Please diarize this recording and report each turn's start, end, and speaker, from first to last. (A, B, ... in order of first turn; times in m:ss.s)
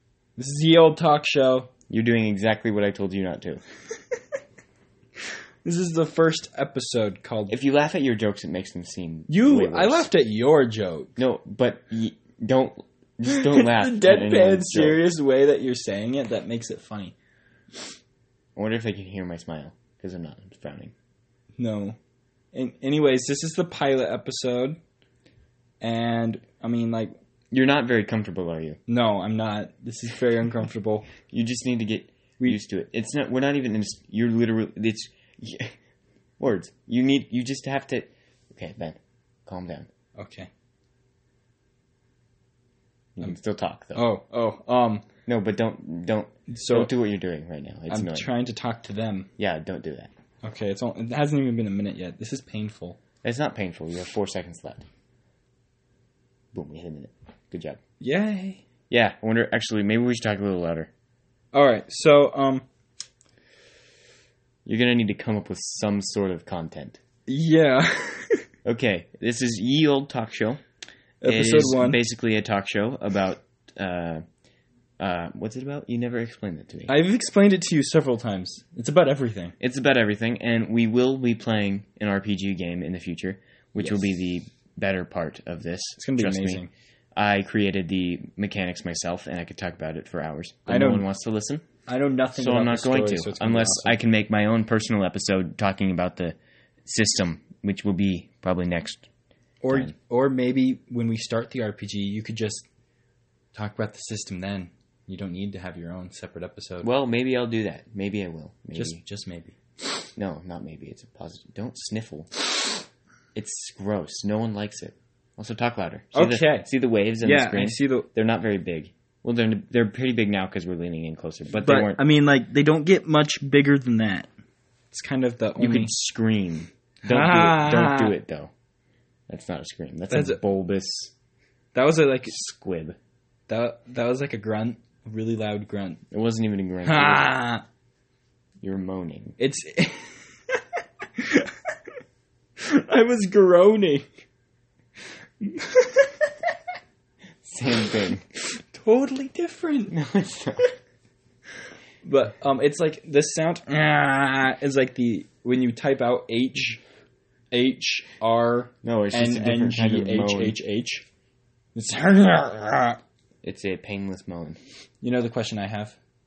0:00.4-0:01.7 A
0:01.9-0:03.6 B
0:05.6-0:07.5 A
0:07.5-0:10.1 B
0:09.3-0:11.1 A
0:11.2-0:15.0 B
0:13.2-0:17.1 A
0:18.5-0:20.9 B
0:21.6-0:22.0 A
0:22.5-0:24.8 A
0:25.8-0:27.1 A
0:27.5-0:28.8 B
0:28.9-0:31.1 A
0:31.3-0:35.8 B
0:36.4-0:39.9 B
0:40.2-0:40.5 A
0:43.2-0:44.1 B
0:43.9-0:45.0 A
0:45.2-0:48.3 B
0:46.5-0:46.9 A
0:47.9-0:49.3 A
0:49.4-0:50.1 B
0:50.4-0:53.0 A
0:53.2-0:54.8 B
0:56.5-0:57.8 B
0:58.0-0:58.6 A
0:58.9-1:00.9 B
1:01.5-1:02.6 A
1:04.6-1:07.0 B
1:07.3-1:08.4 A
1:08.6-1:10.6 B
1:11.2-1:12.0 A
1:11.2-1:14.2 B
1:15.0-1:16.9 B
1:16.9-1:19.5 A
1:19.6-1:26.6 B
1:26.0-1:26.7 A
1:27.1-1:31.6 B
1:30.7-1:31.0 A
1:31.9-1:34.0 A
1:32.3-1:36.3 B
1:36.8-1:39.0 B
1:39.6-1:42.6 A
1:43.5-1:46.9 A
1:46.8-1:49.0 B
1:48.7-1:49.6 A
1:50.2-1:52.4 B
1:53.3-2:02.0 B
1:56.1-1:56.7 A
1:57.2-1:58.1 A
2:01.6-2:04.3 A
2:04.9-2:05.9 A
2:05.6-2:08.5 B
2:07.1-2:08.1 A
2:09.3-2:11.1 B
2:10.1-2:10.4 A
2:11.7-2:12.3 A
2:12.2-2:13.0 B
2:13.5-2:16.0 A
2:16.1-2:17.4 B
2:16.8-2:17.6 A
2:18.6-2:19.4 B
2:19.4-2:20.6 A
2:21.2-2:21.5 A
2:22.6-2:24.1 A
2:25.4-2:26.3 A
2:27.4-2:28.2 B
2:28.6-2:29.9 A
2:29.9-2:30.7 B
2:32.0-2:36.8 A
2:37.5-2:41.0 A
2:38.8-2:40.6 B
2:41.7-2:43.0 A
2:43.4-2:44.6 B
2:45.0-2:46.0 A